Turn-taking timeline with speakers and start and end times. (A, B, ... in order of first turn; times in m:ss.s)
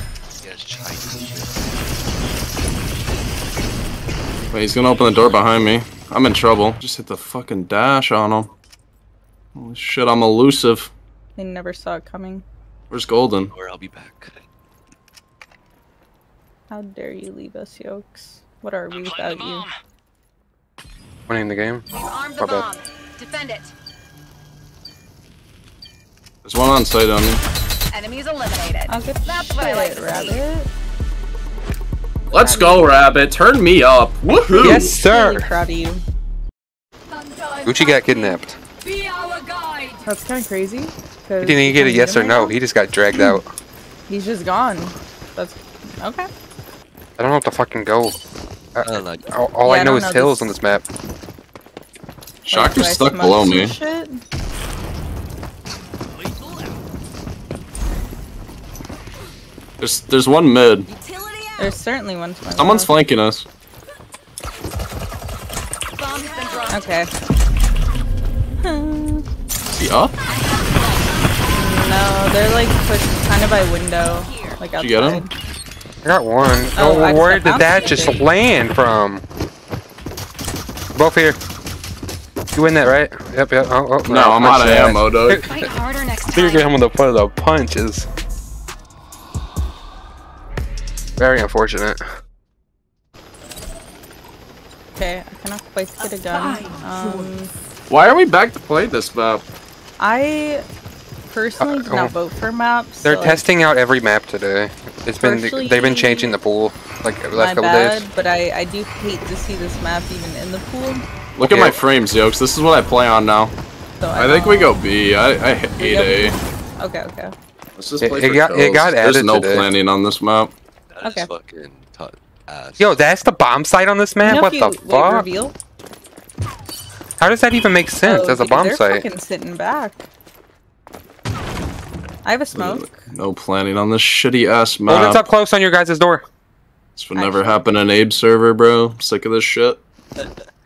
0:00.4-0:01.6 A
0:04.5-0:08.5 B
0:09.5-0:10.9 B
0:11.4-0:12.4 C
0:12.9-0:13.5 B
0:13.5-0:14.4 A
0:16.7-0:19.7 C
0:21.3-0:21.8 D
0:21.9-0:23.7 E
0:22.4-0:22.6 D
0:26.4-0:27.4 B
0:27.9-0:30.4 E
0:28.9-0:30.7 C
0:32.3-0:34.9 B
0:32.4-0:32.9 C
0:34.5-0:35.5 D
0:34.6-0:36.0 C
0:37.6-0:38.6 D
0:40.0-0:42.5 C
0:41.4-0:43.5 D
0:43.1-0:43.4 C
0:44.1-0:46.3 C
0:47.2-0:48.2 D
0:48.8-0:50.8 D
0:48.8-0:49.3 A
0:49.6-0:50.6 C
0:52.4-0:53.8 B
0:52.5-0:54.2 C
0:59.8-1:00.9 B
1:00.9-1:01.3 E
1:01.6-1:02.9 C
1:02.6-1:03.5 B
1:06.0-1:06.9 E
1:06.7-1:07.1 C
1:08.6-1:09.2 C
1:09.7-1:10.1 B
1:10.3-1:11.0 E
1:11.5-1:15.3 C
1:14.8-1:15.2 B
1:16.0-1:19.2 D
1:16.7-1:18.2 C
1:20.9-1:21.4 D
1:22.5-1:25.6 D
1:24.1-1:25.5 B
1:25.5-1:26.7 E
1:26.2-1:28.1 D
1:31.2-1:32.0 D
1:35.0-1:37.5 C
1:37.9-1:39.4 B
1:40.0-1:40.6 C
1:41.3-1:43.4 C
1:41.6-1:42.1 D
1:43.0-1:48.1 D
1:45.2-1:46.3 C
1:47.3-1:51.0 C
1:51.4-1:53.5 B
1:51.4-1:51.8 D
1:54.0-1:54.8 C
1:54.2-1:56.4 B
1:55.8-1:57.3 C
1:57.8-2:00.5 B
1:58.0-1:59.7 D
2:00.9-2:03.1 A
2:01.0-2:01.3 C
2:02.8-2:05.3 D
2:04.2-2:05.5 C
2:07.2-2:09.0 D
2:08.0-2:10.1 C
2:12.2-2:13.0 C
2:12.5-2:15.3 B
2:14.9-2:16.2 D
2:17.0-2:19.8 B
2:17.2-2:17.4 C